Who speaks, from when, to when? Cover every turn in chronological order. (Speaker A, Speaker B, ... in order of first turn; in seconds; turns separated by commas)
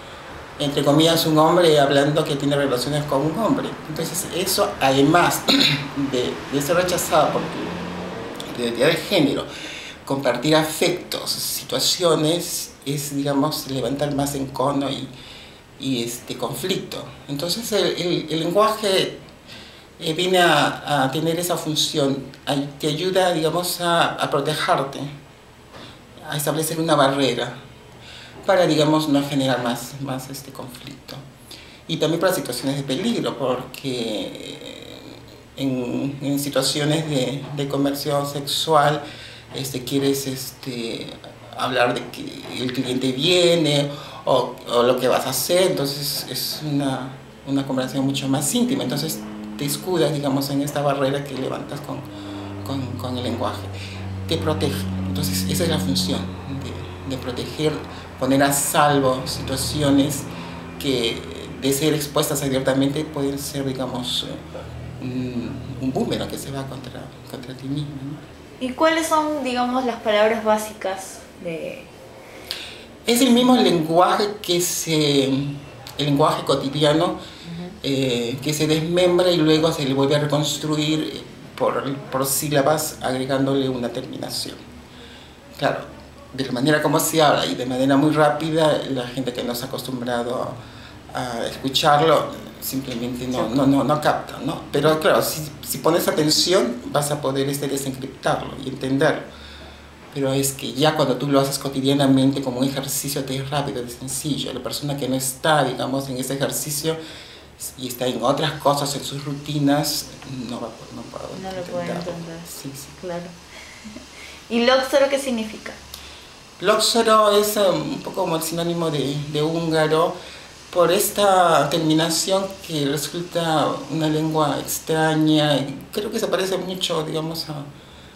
Speaker A: 0.6-7.8, Speaker A: 8.5-9.5, Speaker A: 10.0-15.1, Speaker A: 15.8-19.1, Speaker A: 20.0-25.1, Speaker A: 26.2-27.6, Speaker A: 28.4-31.2, Speaker A: 31.9-39.0, Speaker A: 39.5-52.0, Speaker A: 52.6-53.7, Speaker A: 54.3-60.3, Speaker A: 60.8-64.4, Speaker A: 65.0-68.2, Speaker B: 68.6-71.9, Speaker A: 73.0-77.2, Speaker B: 77.5-77.8, Speaker A: 77.8-84.6, Speaker A: 85.6-90.6, Speaker A: 91.1-99.3, Speaker A: 100.1-107.0, Speaker A: 107.6-113.0, Speaker B: 111.3-113.3, Speaker B: 114.5-115.8, Speaker A: 116.6-120.2, Speaker A: 120.7-127.7